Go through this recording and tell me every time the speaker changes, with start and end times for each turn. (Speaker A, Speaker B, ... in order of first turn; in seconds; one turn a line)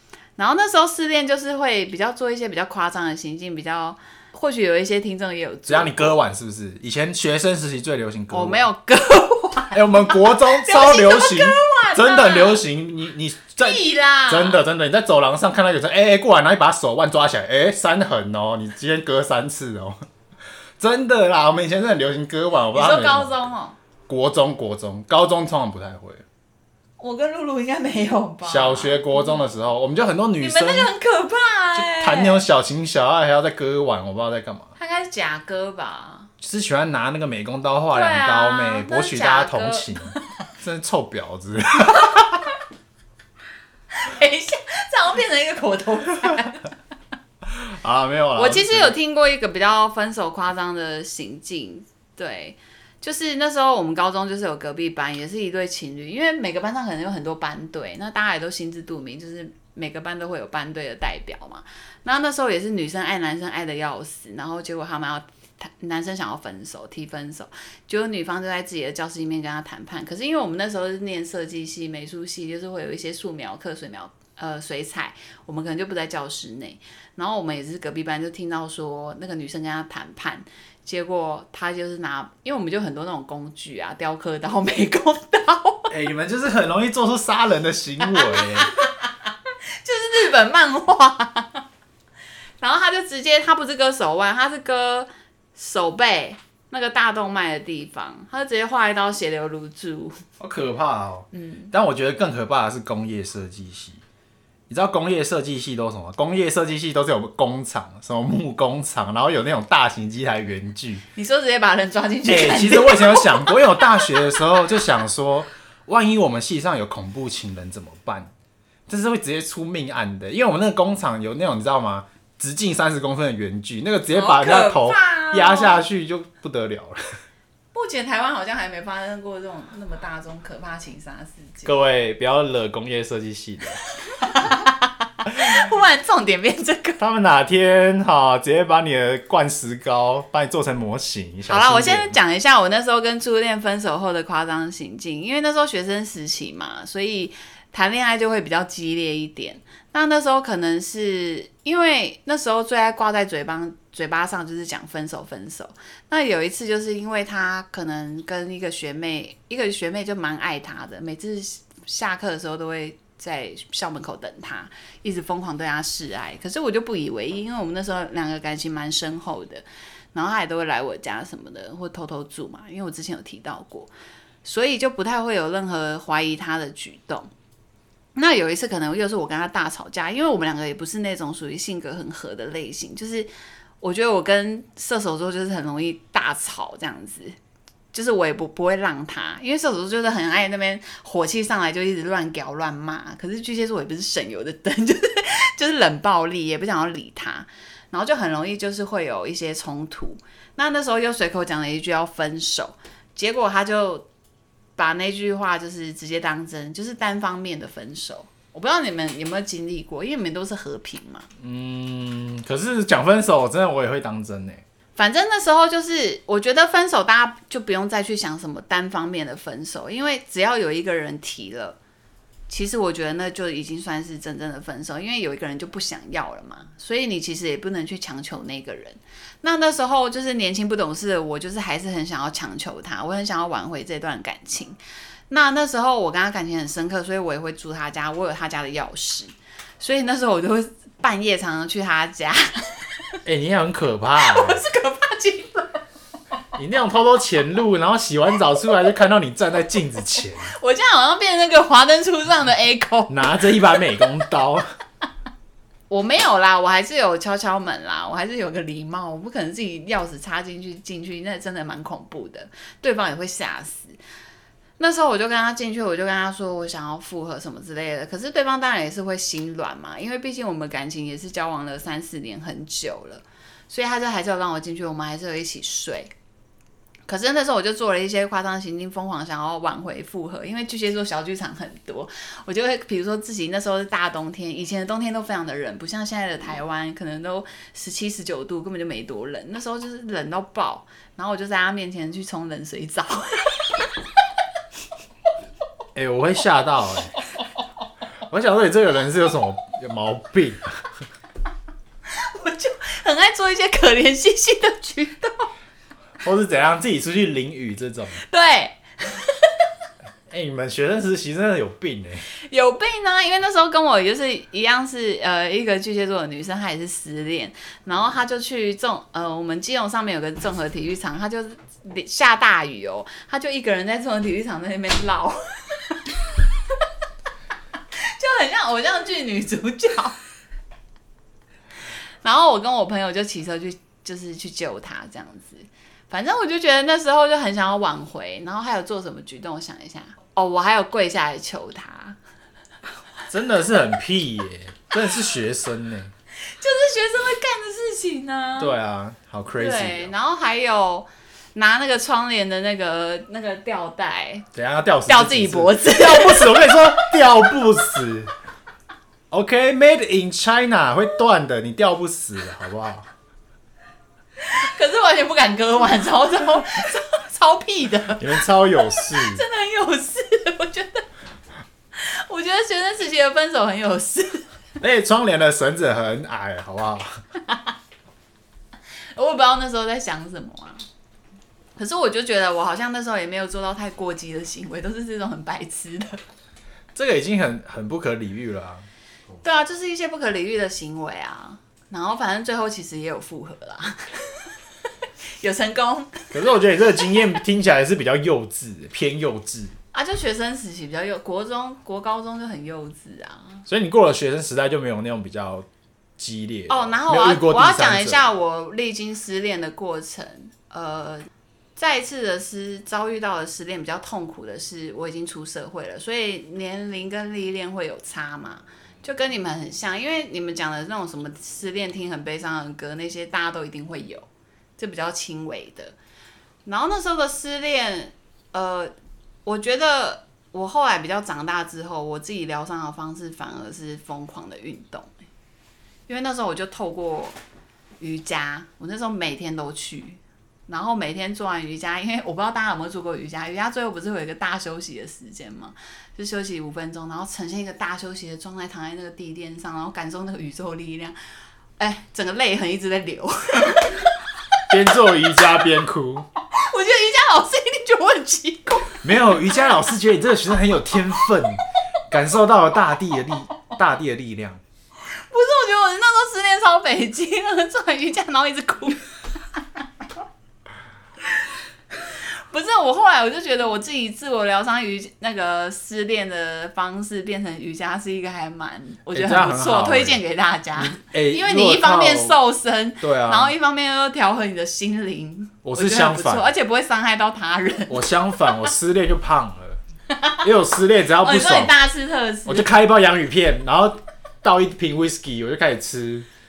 Speaker A: 0.4-6.2
Speaker B: 5.7-8.6
Speaker A: 8.3-12.6
Speaker B: 9.7-20.0
Speaker A: 13.6-14.6
Speaker B: 20.8-23.5
Speaker A: 22.7-23.8
Speaker B: 24.1-26.2
Speaker A: 27.0-29.4
Speaker B: 28.4-30.9
Speaker A: 30.4-32.4
Speaker B: 31.8-34.7
Speaker A: 34.8-36.3
Speaker B: 36.4-42.5
Speaker A: 37.9-40.2
Speaker A: 43.9-46.7
Speaker B: 47.5-49.0
Speaker A: 48.3-85.9
Speaker B: 85.9-88.7
Speaker A: 88.0-89.3
Speaker A: 89.8-91.6
Speaker A: 92.6-100.2
Speaker B: 100.4-104.0
Speaker A: 101.3-101.7
Speaker B: 104.7-111.0
Speaker A: 111.2-114.2
Speaker B: 112.3-118.3
Speaker B: 118.9-127.0
Speaker A: 124.1-125.8
Speaker A: 127.7-131.7
Speaker B: 131.7-133.8
Speaker A: 134.1-137.0
Speaker B: 137.0-142.1
Speaker A: 141.5-173.9
Speaker A: 174.4-177.3
Speaker A: 178.1-183.3
Speaker A: 183.8-187.3
Speaker A: 187.9-204.1
Speaker A: 204.8-211.3
Speaker B: 211.4-214.6
Speaker A: 214.9-221.8
Speaker A: 222.5-234.8
Speaker A: 235.3-242.9
Speaker B: 243.2-244.6
Speaker A: 244.2-245.8
Speaker B: 246.6-250.5
Speaker A: 250.5-253.5
Speaker B: 253.1-254.7
Speaker A: 255.9-264.0
Speaker A: 264.8-276.1
Speaker A: 277.1-293.7
Speaker B: 295.9-297.1
Speaker B: 298.3-300.8
Speaker A: 302.1-305.5
Speaker B: 306.2-308.2
Speaker A: 308.2-309.6
Speaker B: 310.3-312.2
Speaker A: 312.5-326.1
Speaker A: 328.0-330.1
Speaker A: 332.2-342.2
Speaker B: 343.3-346.1
Speaker A: 346.5-348.8
Speaker B: 348.6-350.1
Speaker A: 349.5-354.5
Speaker B: 354.5-358.3
Speaker A: 355.1-357.1
Speaker B: 359.3-363.1
Speaker A: 364.4-371.0
Speaker B: 368.2-369.4
Speaker A: 371.9-374.4
Speaker B: 374.8-377.2
Speaker A: 379.1-380.8
Speaker A: 381.8-386.2
Speaker B: 386.9-388.9
Speaker A: 389.4-394.5
Speaker A: 395.4-396.3
Speaker B: 396.3-399.7
Speaker A: 399.9-403.6
Speaker B: 403.7-405.7
Speaker B: 406.2-408.3
Speaker A: 406.7-424.3
Speaker A: 424.8-425.9
Speaker A: 426.6-428.9
Speaker A: 429.4-435.1
Speaker A: 436.1-437.4
Speaker A: 438.0-451.1
Speaker A: 451.8-454.1
Speaker B: 454.7-456.3
Speaker A: 456.5-459.0
Speaker B: 459.0-464.6
Speaker A: 465.3-469.0
Speaker A: 472.1-488.1
Speaker B: 479.1-480.2
Speaker B: 480.7-482.4
Speaker B: 483.0-483.5
Speaker B: 485.6-486.5
Speaker B: 487.9-489.8
Speaker A: 490.1-490.4
Speaker B: 490.4-491.7
Speaker A: 491.2-492.7
Speaker B: 492.4-496.3